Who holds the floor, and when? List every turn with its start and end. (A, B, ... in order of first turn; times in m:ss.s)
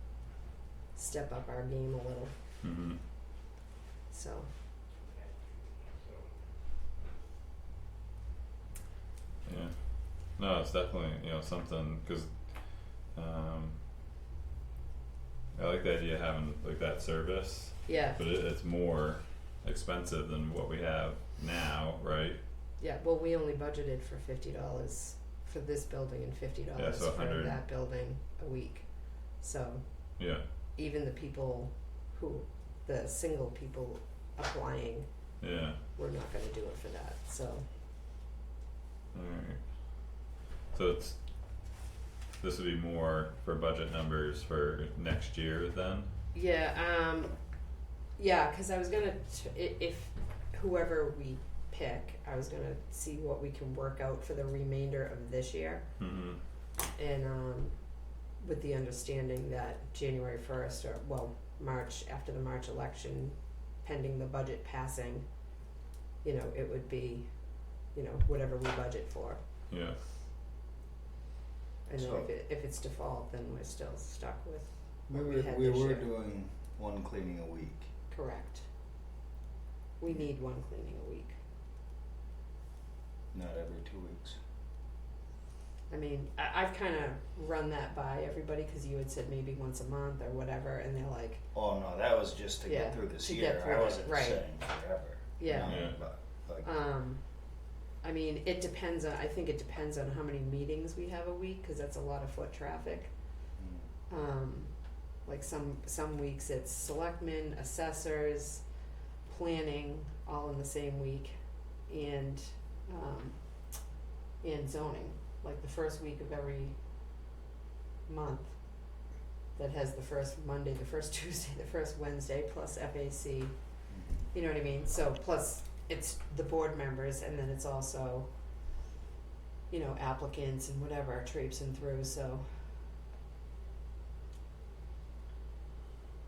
0:00.9-0:02.3 A
0:02.6-0:03.0 B
0:04.1-0:04.5 A
0:09.4-0:13.8 B
0:15.6-0:22.4 B
0:17.9-0:18.2 A
0:22.8-0:37.7 A
0:26.8-0:27.6 B
0:30.2-0:30.4 B
0:35.4-0:35.8 B
0:39.1-0:41.8 B
0:42.4-0:46.1 B
0:46.3-0:47.6 A
0:48.1-0:55.9 A
0:56.0-0:56.4 B
0:56.9-1:05.5 A
1:06.2-1:09.4 A
1:09.7-1:10.0 B
1:11.8-1:16.1 A
1:12.0-1:12.3 C
1:15.1-1:17.9 C
1:18.1-1:18.7 A
1:20.0-1:21.4 A
1:23.3-1:24.4 C
1:25.9-1:31.4 A
1:31.5-1:36.7 C
1:32.6-1:34.5 A
1:35.4-1:43.4 A
1:35.6-1:36.0 B
1:43.6-1:43.9 C
1:44.1-1:48.7 A
1:49.2-1:56.8 A
1:58.1-2:08.6 A
2:03.9-2:04.3 C
2:09.7-2:12.7 A